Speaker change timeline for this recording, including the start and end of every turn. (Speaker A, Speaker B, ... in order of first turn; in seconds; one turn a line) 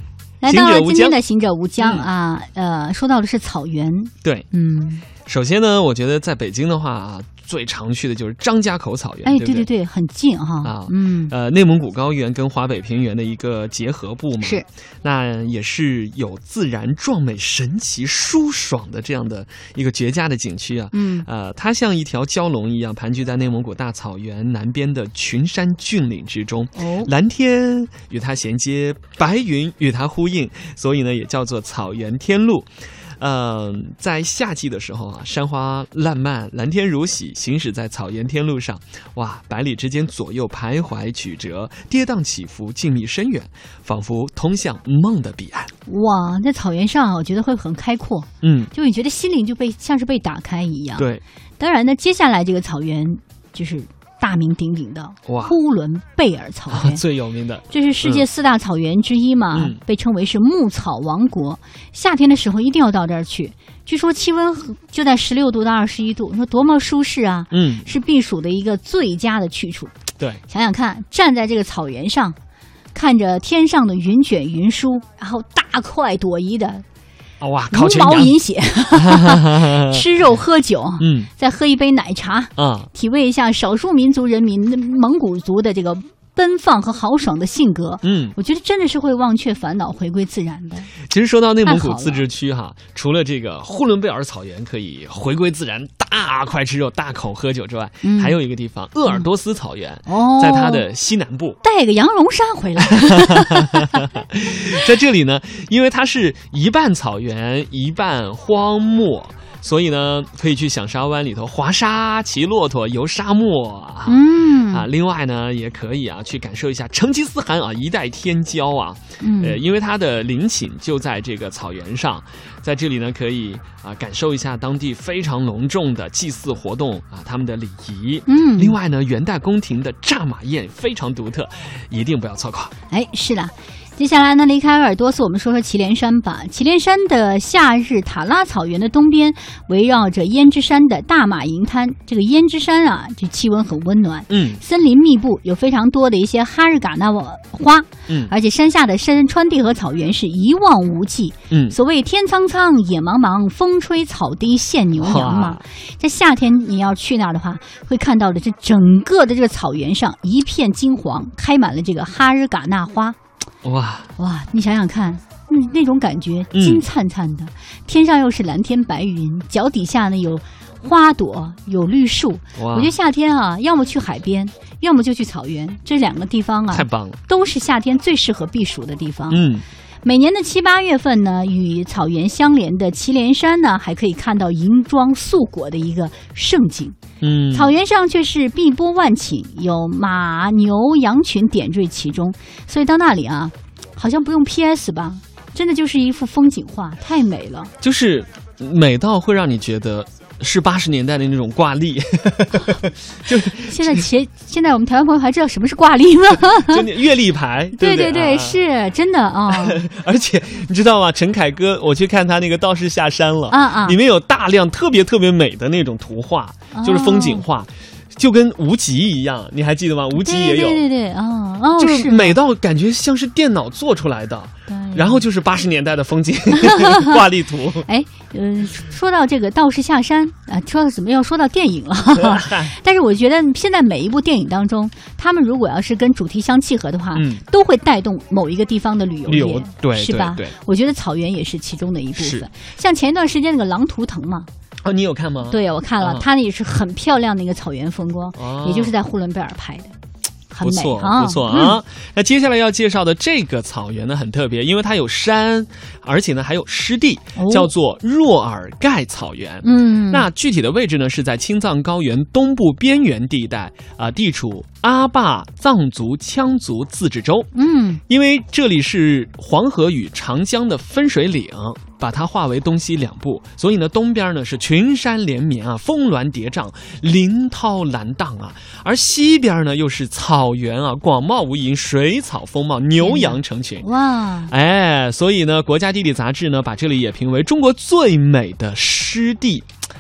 Speaker A: 0.4-5.1
Speaker B: 0.5-1.2
Speaker B: 1.8-2.1
Speaker B: 5.2-9.7
Speaker A: 9.2-11.3
Speaker B: 10.6-45.7
Speaker A: 14.4-14.7
Speaker A: 20.9-21.3
Speaker A: 26.8-27.1
Speaker A: 45.9-51.1
Speaker B: 48.4-48.7
Speaker B: 51.0-51.2
Speaker A: 51.6-57.0
Speaker B: 55.3-55.5
Speaker B: 56.7-58.3
Speaker A: 57.7-70.0
Speaker B: 59.5-59.8
Speaker B: 67.5-67.9
Speaker A: 70.5-72.4
Speaker A: 72.9-76.8
Speaker B: 77.4-78.3
Speaker A: 77.7-91.0
Speaker B: 78.9-80.0
Speaker B: 81.0-81.3
Speaker B: 82.6-82.9
Speaker B: 88.0-88.4
Speaker B: 91.1-101.6
Speaker A: 91.7-92.2
Speaker A: 98.0-98.4
Speaker A: 100.1-100.9
Speaker A: 101.6-104.0
Speaker B: 102.8-132.7
Speaker A: 114.1-114.9
Speaker A: 119.2-119.6
Speaker A: 128.3-128.8
Speaker A: 132.9-163.2
Speaker B: 144.3-144.6
Speaker B: 148.1-148.3
Speaker B: 151.5-151.8
Speaker B: 155.0-155.6
Speaker B: 163.6-164.1
Speaker A: 164.2-179.5
Speaker B: 166.5-166.8
Speaker B: 172.6-172.9
Speaker B: 176.7-177.2
Speaker B: 179.3-179.7
Speaker A: 180.0-187.0
Speaker B: 187.2-187.7
Speaker A: 187.5-197.7
Speaker B: 197.8-204.1
Speaker A: 203.5-206.8
Speaker B: 206.5-208.6
Speaker A: 207.8-209.8
Speaker B: 209.5-220.8
Speaker A: 213.5-214.0
Speaker A: 216.7-217.4
Speaker A: 220.2-222.4
Speaker B: 221.8-227.9
Speaker A: 224.7-225.3
Speaker A: 226.7-227.1
Speaker A: 227.9-244.5
Speaker B: 232.2-232.7
Speaker B: 237.1-237.4
Speaker B: 239.3-240.6
Speaker B: 242.2-242.5
Speaker B: 244.8-246.3
Speaker A: 245.5-249.9
Speaker B: 248.4-248.9
Speaker A: 250.5-251.8
Speaker B: 250.6-267.5
Speaker A: 257.4-257.7
Speaker A: 259.6-260.3
Speaker A: 267.6-268.0
Speaker B: 268.1-283.9
Speaker A: 283.0-284.5
Speaker B: 284.5-289.7